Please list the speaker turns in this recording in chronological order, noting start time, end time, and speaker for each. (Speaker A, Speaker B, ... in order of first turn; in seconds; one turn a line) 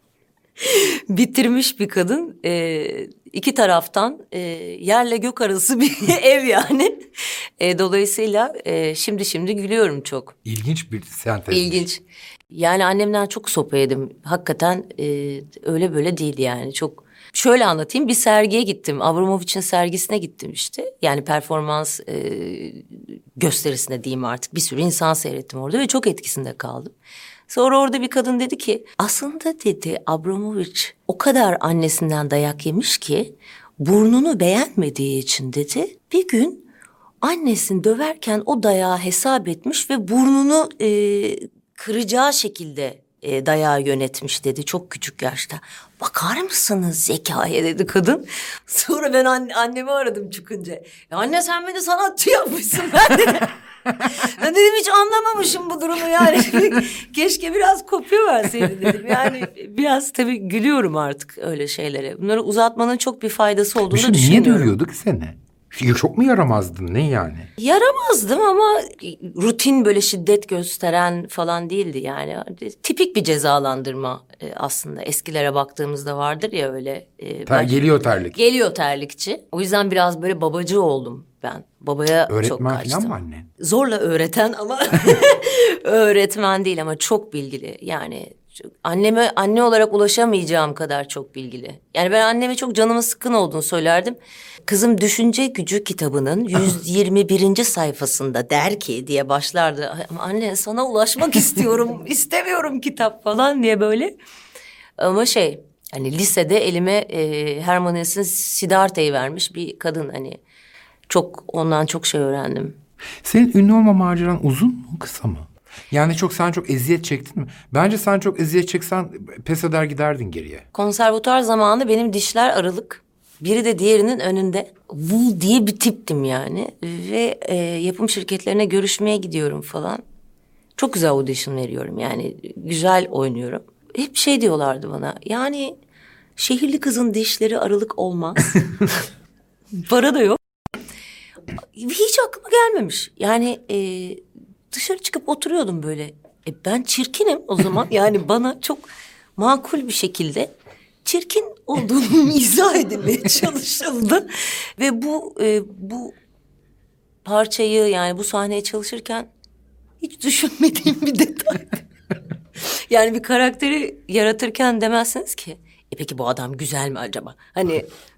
Speaker A: 0.6-7.1
Speaker A: 7.6-10.3
Speaker B: 10.4-11.9
Speaker A: 11.5-26.9
Speaker A: 27.5-36.6
Speaker A: 37.2-64.7
Speaker B: 63.9-67.5
Speaker A: 67.6-77.8
Speaker B: 77.5-78.4
Speaker A: 78.3-104.1
Speaker B: 82.3-83.5
Speaker A: 105.0-110.4
Speaker A: 111.1-112.8
Speaker B: 113.2-120.7
Speaker A: 120.7-130.0
Speaker A: 130.8-135.7
Speaker A: 136.4-138.7
Speaker A: 139.8-140.4
Speaker A: 141.8-150.5
Speaker A: 151.1-156.2
Speaker A: 157.2-159.3
Speaker A: 160.0-161.8
Speaker A: 162.6-167.9